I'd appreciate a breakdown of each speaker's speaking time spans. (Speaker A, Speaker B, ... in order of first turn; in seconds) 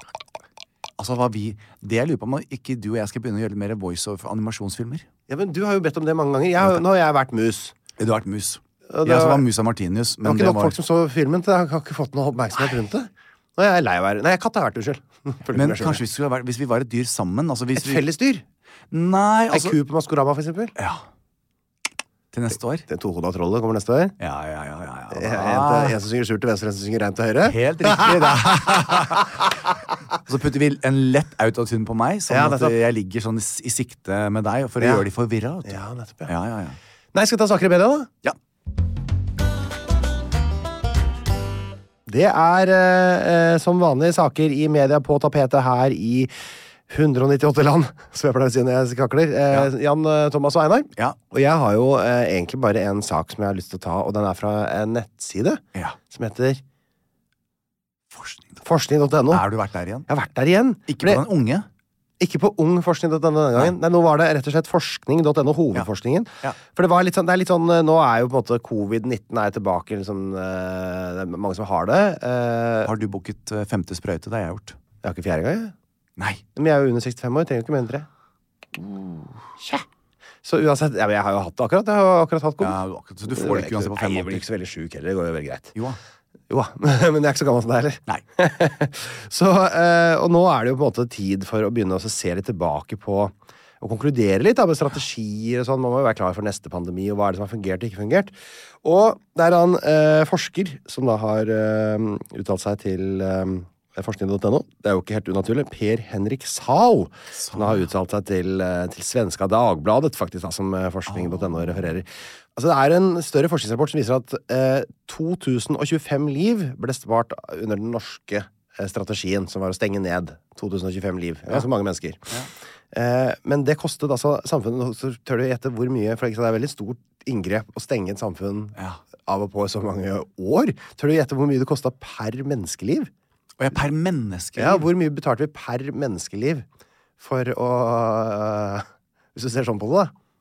Speaker A: 1.0-5.1, 8.0-10.8, 15.5-18.1, 18.9-19.8, 20.8-21.0, 22.3-22.9, 24.2-26.0, 27.4-29.3, 30.2-36.8, 58.1-58.6, 59.3-60.1, 60.9-61.7, 72.8-74.8, 76.2-76.4, 82.6-84.5, 107.3-107.9, 111.1-111.9, 128.8-129.0, 133.6-134.9
Speaker B: 5.3-7.8, 8.9-9.5, 10.2-16.0, 17.8-18.4, 19.5-20.7, 22.9-24.2, 25.1-29.4, 32.3-32.8, 34.8-35.1, 35.6-36.3, 37.1-38.1, 42.1-46.3, 46.9-56.6, 58.6-59.5, 60.1-61.2, 62.2-72.9, 75.0-75.7, 76.5-78.1, 78.7-79.9, 80.4-85.8, 86.5-122.3, 122.9-133.1, 134.6-136.7, 137.2-140.1